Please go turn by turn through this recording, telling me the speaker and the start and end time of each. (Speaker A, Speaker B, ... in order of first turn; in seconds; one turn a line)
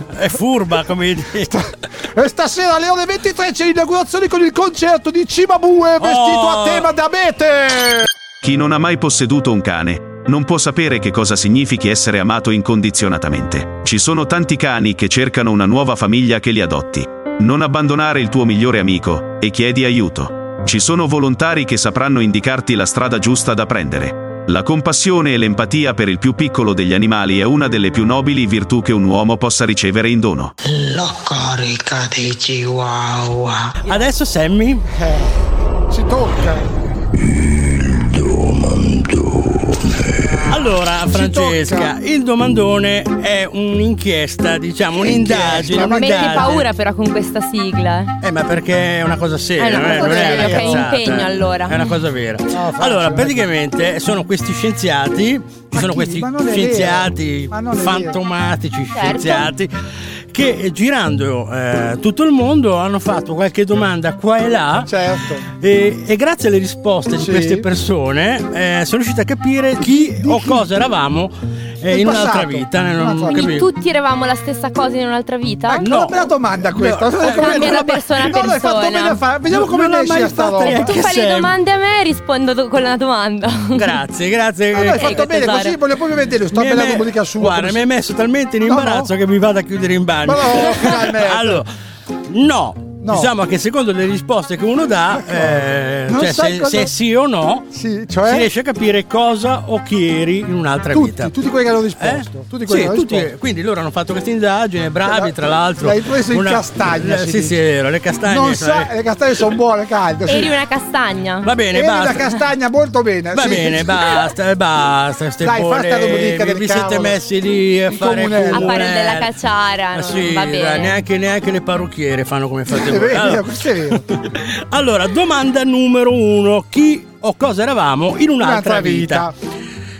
Speaker A: 0.1-1.6
Speaker B: 1.4-8.1
Speaker A: 6.0-6.9
Speaker C: 8.4-30.5
Speaker D: 30.6-33.8
Speaker A: 33.9-34.8
Speaker B: 34.9-35.4
Speaker B: 35.9-36.7
Speaker A: 37.9-39.6
Speaker A: 40.5-46.6
Speaker B: 40.5-41.9
Speaker B: 45.0-46.6
Speaker E: 45.8-48.1
Speaker A: 48.2-59.7
Speaker E: 49.6-51.9
Speaker B: 49.7-50.9
Speaker B: 52.5-53.5
Speaker B: 55.7-58.2
Speaker E: 58.9-59.5
Speaker A: 60.3-64.9
Speaker B: 64.8-65.5
Speaker A: 65.6-73.7
Speaker B: 67.2-67.7
Speaker B: 69.8-70.7
Speaker B: 71.9-73.5
Speaker E: 73.3-75.9
Speaker B: 75.7-81.0
Speaker A: 75.8-78.0
Speaker E: 77.2-79.2
Speaker A: 79.5-81.5
Speaker E: 80.7-84.0
Speaker A: 83.7-85.7
Speaker B: 84.7-87.8
Speaker E: 84.8-85.8
Speaker A: 86.5-91.7
Speaker B: 88.6-89.1
Speaker B: 90.2-91.6
Speaker A: 92.3-97.7
Speaker B: 93.0-93.3
Speaker B: 95.1-96.9
Speaker B: 97.7-98.5
Speaker A: 98.2-101.3
Speaker B: 100.9-103.3
Speaker A: 102.0-108.9
Speaker B: 105.0-107.6
Speaker B: 108.2-110.5
Speaker E: 110.3-111.5
Speaker A: 111.4-112.4
Speaker B: 111.7-114.3
Speaker A: 113.3-119.3
Speaker B: 115.4-117.2
Speaker B: 117.9-118.8
Speaker E: 118.5-121.0
Speaker A: 119.9-129.3
Speaker B: 122.7-124.2
Speaker B: 128.4-129.3